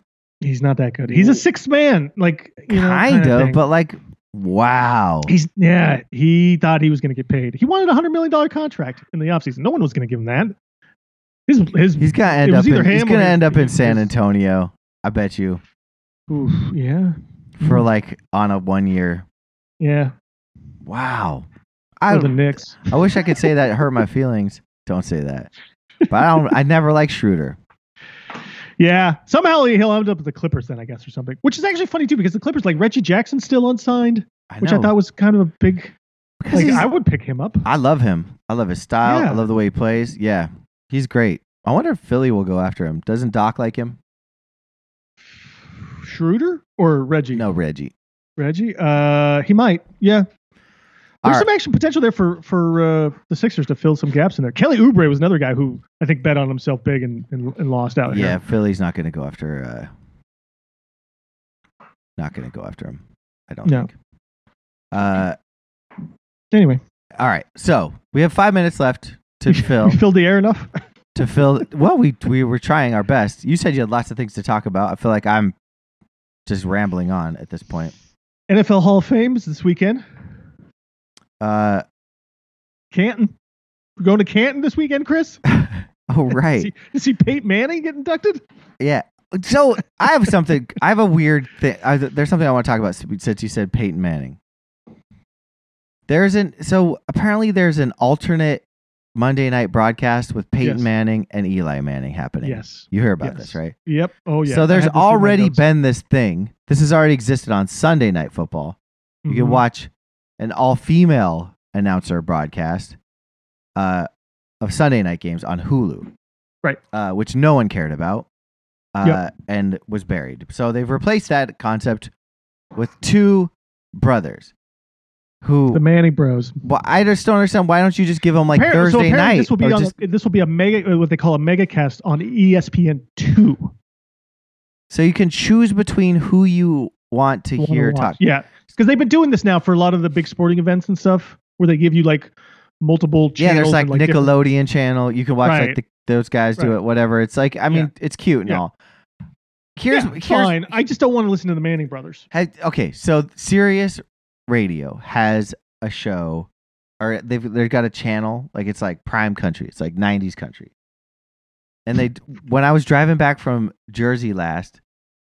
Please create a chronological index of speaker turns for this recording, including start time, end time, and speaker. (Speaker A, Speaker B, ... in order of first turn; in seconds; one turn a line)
Speaker A: 0.4-3.6
Speaker B: 1.1-1.4
Speaker B: 2.7-5.3
Speaker A: 5.3-10.5
Speaker A: 11.5-14.1
Speaker B: 12.0-15.6
Speaker A: 16.3-17.9
Speaker B: 17.6-19.3
Speaker A: 19.8-20.1
Speaker B: 20.9-21.5
Speaker B: 22.0-25.5
Speaker A: 22.1-23.6
Speaker B: 26.1-27.6
Speaker A: 28.8-36.0
Speaker B: 34.5-34.9
Speaker B: 36.4-36.9
Speaker A: 36.5-37.7
Speaker B: 37.6-44.0
Speaker A: 39.0-39.4
Speaker A: 45.9-47.5
Speaker B: 47.3-47.9
Speaker A: 48.4-50.3
Speaker A: 51.2-58.4
Speaker B: 58.1-59.9
Speaker B: 62.2-63.9
Speaker B: 64.9-65.4
Speaker A: 66.5-66.8
Speaker B: 67.2-70.0
Speaker A: 69.5-70.7
Speaker B: 71.2-75.5
Speaker B: 76.5-77.9
Speaker A: 78.5-80.0
Speaker B: 81.4-81.8
Speaker A: 82.9-83.3
Speaker A: 84.0-85.4
Speaker B: 85.5-86.7
Speaker A: 86.6-88.4
Speaker B: 88.8-94.4
Speaker B: 96.1-103.8
Speaker A: 100.6-100.9
Speaker A: 102.4-105.6
Speaker B: 104.5-108.8
Speaker A: 109.2-109.6
Speaker B: 109.3-113.0
Speaker B: 113.8-114.1
Speaker B: 114.6-116.1
Speaker B: 116.9-118.3
Speaker B: 119.0-122.1
Speaker B: 122.7-124.5
Speaker B: 125.4-125.8
Speaker A: 125.7-126.6
Speaker B: 126.6-129.9
Speaker A: 128.5-133.8
Speaker B: 134.9-138.2
Speaker A: 137.6-144.3
Speaker B: 143.4-148.7
Speaker A: 145.4-145.8
Speaker B: 149.8-150.6
Speaker A: 149.9-152.3
Speaker B: 152.3-156.5
Speaker B: 157.0-160.7
Speaker B: 161.9-164.8